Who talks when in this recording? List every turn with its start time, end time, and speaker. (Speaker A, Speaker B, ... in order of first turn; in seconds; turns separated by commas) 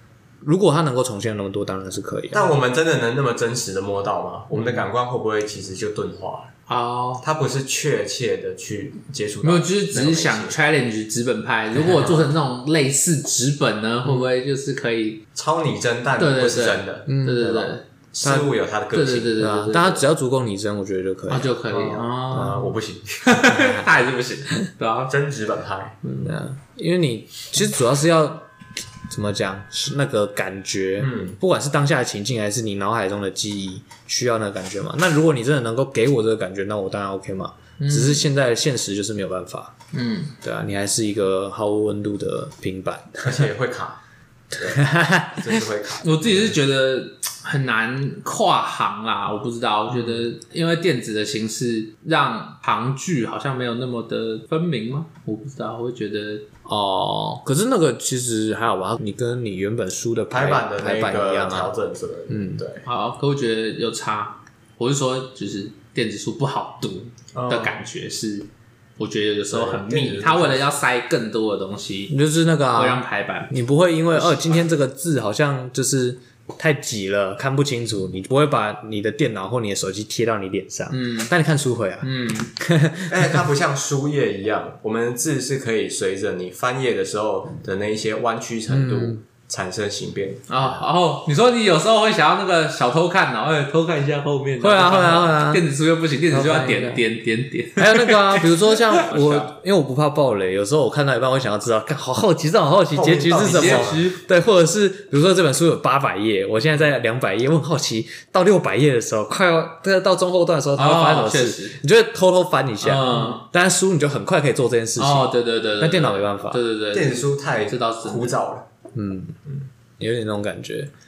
Speaker A: 0.4-2.6, Speaker B: 2.3-6.5, Speaker C: 4.5-4.8, Speaker C: 6.7-7.2, Speaker B: 7.2-10.6, Speaker C: 9.4-15.2, Speaker B: 11.8-12.3, Speaker B: 15.3-19.4, Speaker C: 16.2-17.9, Speaker A: 17.1-17.6, Speaker A: 18.2-18.5, Speaker C: 18.9-20.0, Speaker A: 19.4-21.6, Speaker C: 21.3-25.1, Speaker B: 21.7-23.8, Speaker A: 23.6-23.8, Speaker B: 25.1-26.1, Speaker C: 26.1-26.3, Speaker A: 26.2-28.5, Speaker A: 29.1-39.7, Speaker B: 31.0-31.4, Speaker C: 37.8-38.2, Speaker C: 39.9-40.3, Speaker A: 40.4-43.5, Speaker B: 43.2-44.0, Speaker B: 44.5-46.6, Speaker A: 44.6-45.6, Speaker C: 46.0-56.5, Speaker A: 56.6-61.7, Speaker B: 60.3-62.8, Speaker A: 62.3-62.6, Speaker C: 62.9-68.5, Speaker B: 67.3-67.9, Speaker C: 69.0-72.2, Speaker B: 69.5-70.7, Speaker A: 72.1-83.5, Speaker C: 72.7-73.6, Speaker C: 80.9-81.3, Speaker C: 82.0-82.5, Speaker B: 83.1-90.8, Speaker A: 88.7-89.2, Speaker C: 90.5-99.5, Speaker A: 94.6-95.7, Speaker A: 96.3-97.0, Speaker A: 97.8-116.6, Speaker B: 102.9-104.1, Speaker C: 103.4-104.2, Speaker C: 110.8-111.8, Speaker C: 112.8-113.4, Speaker C: 115.0-118.4, Speaker B: 116.9-118.7, Speaker A: 118.9-119.4, Speaker A: 120.0-120.9